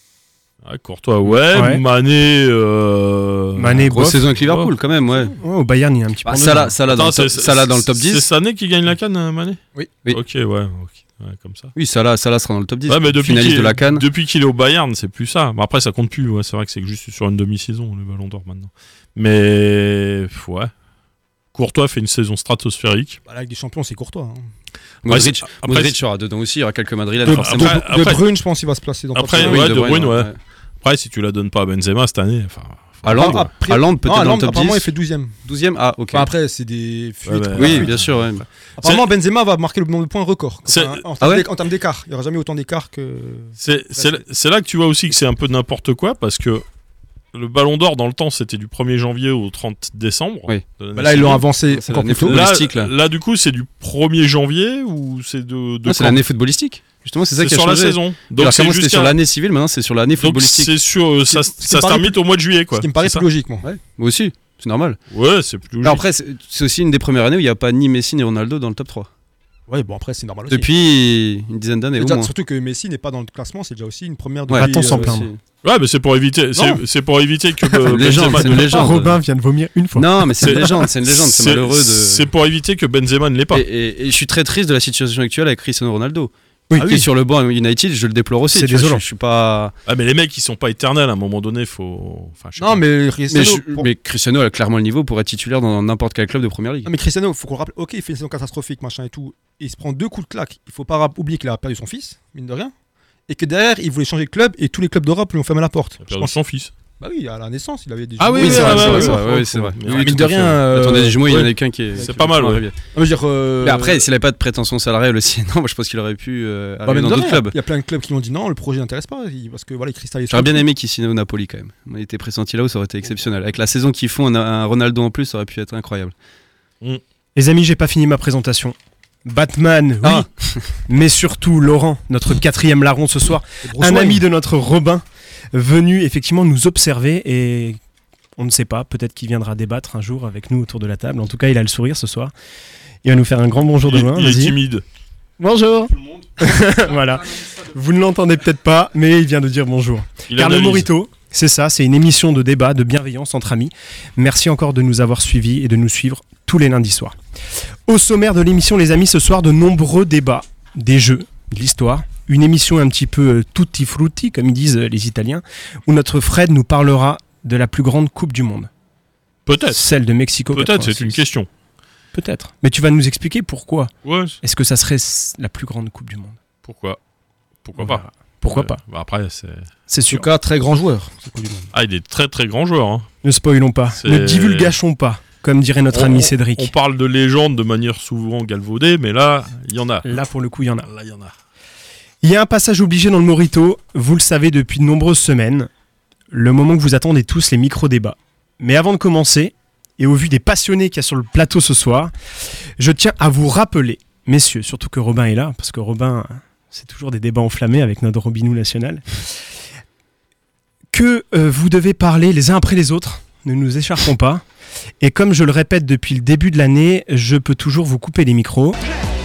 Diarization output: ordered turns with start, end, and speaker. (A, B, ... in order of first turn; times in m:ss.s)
0:00.6-0:04.7 A
0:01.5-0:01.8 B
0:03.6-0:04.2 B
0:03.9-0:05.3 C
0:05.4-0:06.8 B
0:06.2-0:08.2 C
0:06.9-0:11.7 A
0:11.8-0:14.0 C
0:12.9-0:20.7 A
0:21.5-0:23.2 A
0:23.3-0:24.4 D
0:25.0-0:27.8 C
0:25.1-0:25.9 A
0:27.2-0:30.0 D
0:27.3-0:28.2 A
0:29.1-0:30.3 A
0:29.3-0:30.4 C
0:30.8-0:33.5 A
0:33.0-0:34.9 C
0:33.1-0:35.4 D
0:35.4-0:36.3 C
0:36.1-0:37.9 D
0:37.2-0:38.2 A
0:37.6-0:38.4 C
0:38.8-0:44.2 D
0:40.7-0:41.0 A
0:41.2-0:41.4 C
0:43.6-0:46.6 A
0:47.3-0:51.4 A
0:50.9-0:52.4 D
0:51.7-0:52.9 C
0:52.2-0:56.2 A
0:55.9-1:00.7 C
0:57.4-0:59.2 A
1:00.2-1:03.2 A
1:01.3-1:02.2 D
1:02.7-1:03.7 D
1:03.6-1:05.0 C
1:05.1-1:06.0 A
1:05.8-1:09.1 C
1:09.7-1:10.7 D
1:10.5-1:12.3 C
1:12.0-1:15.2 D
1:14.5-1:15.4 C
1:14.6-1:15.3 B
1:15.6-1:18.9 A
1:16.6-1:16.8 D
1:17.9-1:19.2 C
1:18.4-1:20.6 B
1:19.9-1:22.2 C
1:20.4-1:23.6 A
1:23.5-1:29.7 C
1:26.7-1:27.0 B
1:26.8-1:27.0 D
1:28.5-1:29.0 B
1:29.9-1:32.8 A
1:32.6-1:33.9 D
1:33.3-1:36.9 C
1:36.8-1:42.7 D
1:43.3-1:46.4 D
1:46.0-1:46.7 A
1:47.0-1:49.2 D
1:48.2-1:50.6 A
1:48.4-1:52.8 C
1:49.9-1:52.3 D
1:52.0-1:52.6 A
1:52.9-1:54.1 D
1:53.6-1:57.6 C
1:56.8-2:00.7 D
2:00.3-2:06.1 C
2:07.4-2:10.3 B
2:10.0-2:10.7 C
2:10.8-2:17.8 B
2:13.7-2:14.2 D
2:18.4-2:22.3 B
2:23.0-2:24.6 B
2:23.9-2:24.8 A
2:25.4-2:37.1 B
2:30.3-2:30.9 A
2:37.9-2:48.7 B
2:49.4-2:49.8 A
2:49.7-2:51.2 B
2:50.5-2:51.5 A
2:52.1-2:53.9 B
2:54.0-2:54.4 A
2:54.4-2:56.4 B
2:56.6-2:57.0 A
2:57.6-2:59.7 A
2:57.8-2:58.8 B
2:59.9-3:00.3 B
3:00.1-3:01.7 D
3:01.7-3:03.1 A
3:03.2-3:06.7 B
3:04.0-3:04.8 A
3:05.9-3:10.2 A
3:10.0-3:10.9 B
3:10.8-3:11.3 A
3:12.2-3:15.7 B
3:16.3-3:22.1 B
3:22.8-3:29.0 B
3:30.9-3:34.4 B
3:35.0-3:38.8 B